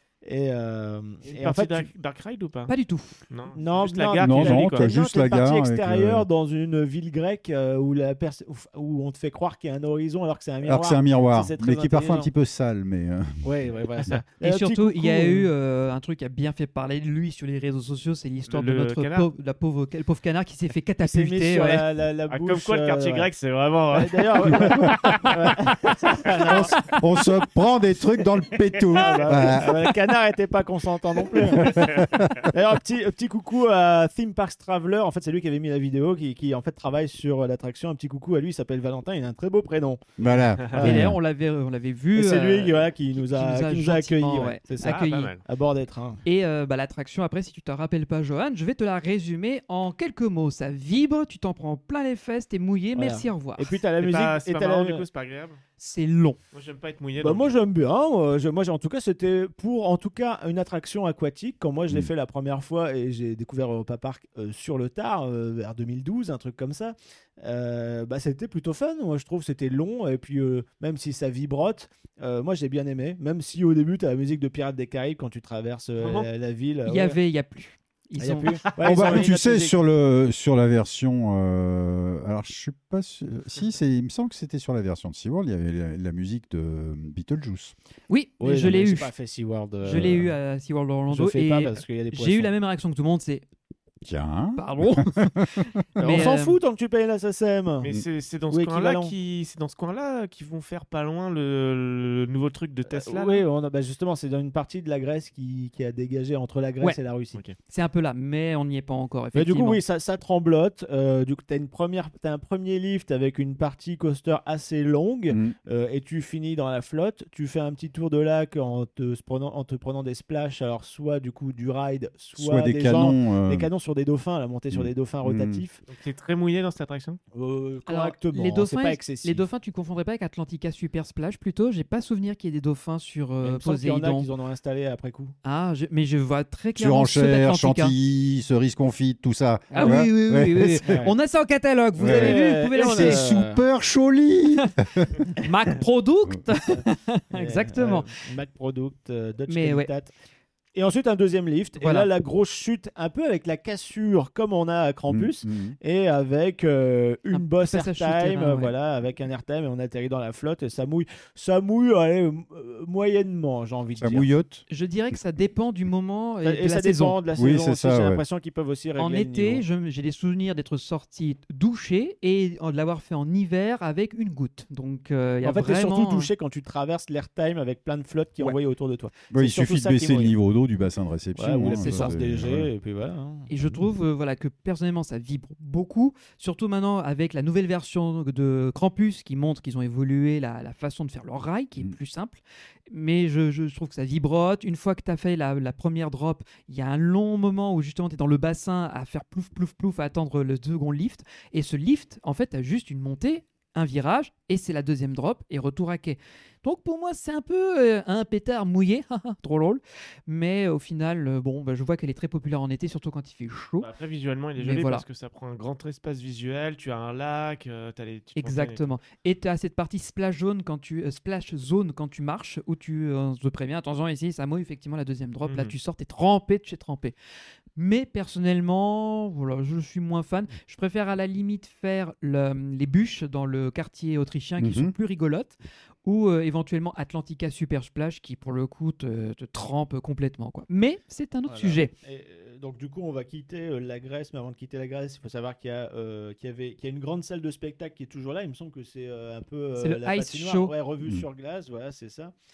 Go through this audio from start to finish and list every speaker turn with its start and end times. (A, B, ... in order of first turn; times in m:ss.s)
0:00.2-0:01.9 A
0:01.3-0:02.7 B
0:02.7-0:03.2 C
0:03.3-0:05.0 B
0:03.5-0:12.3 A
0:04.2-0:06.3 D
0:10.6-0:13.4 D
0:13.4-0:15.5 A
0:14.4-0:21.8 C
0:18.5-0:19.3 B
0:21.0-0:23.3 A
0:22.3-0:25.3 B
0:23.9-0:27.0 A
0:24.5-0:25.6 D
0:26.4-0:30.1 D
0:28.9-0:41.1 A
0:31.4-0:32.5 D
0:40.2-0:41.2 D
0:40.8-0:45.3 C
0:42.1-0:46.2 A
0:44.8-0:45.4 B
0:46.2-0:53.7 C
0:53.0-0:55.0 A
0:54.0-0:55.6 B
0:55.8-0:56.4 C
0:56.5-0:57.6 B
0:57.2-1:17.2 A
1:16.0-1:16.3 B
1:16.9-1:18.6 C
1:18.2-1:19.7 A
1:18.8-1:27.7 D
1:28.1-1:29.1 C
1:28.4-1:30.3 A
1:29.8-1:33.4 C
1:31.1-1:32.5 A
1:34.0-1:35.8 D
1:34.6-1:36.6 C
1:36.0-1:37.9 A
1:37.8-1:43.4 B
1:38.5-1:39.1 A
1:42.9-1:47.4 A
1:47.7-1:49.8 C
1:49.3-2:05.8 A
1:55.3-1:55.6 D
2:02.4-2:03.7 D
2:04.7-2:05.6 D
2:05.9-2:07.2 B
2:07.3-2:09.4 A
2:07.9-2:14.3 C
2:13.4-2:15.3 A
2:15.4-2:18.0 C
2:16.8-2:21.1 D
2:19.7-2:20.1 A
2:19.7-2:23.2 C
2:20.9-2:21.1 A
2:22.0-2:25.1 D
2:22.0-2:23.6 A
2:25.4-2:28.1 C
2:26.7-2:30.1 A
2:29.5-2:29.9 C
2:30.7-2:44.3 A
2:31.8-2:32.1 C
2:35.1-2:35.8 D
2:37.3-2:38.7 C
2:44.0-2:44.6 D
2:44.7-2:47.2 C
2:46.4-2:49.6 A
2:47.3-2:48.2 D
2:49.0-2:56.3 C
2:55.4-3:00.3 A
2:59.3-3:02.7 D
3:01.4-3:03.5 A
3:01.7-3:02.1 C
3:03.5-3:33.9 C
3:33.8-3:38.9 B
3:34.6-3:35.0 C
3:38.4-3:47.1 C
3:45.4-3:45.7 B
3:47.8-4:01.9 C
3:54.6-3:54.9 D
4:01.5-4:12.3 A
4:09.8-4:10.7 C
4:11.0-4:11.3 D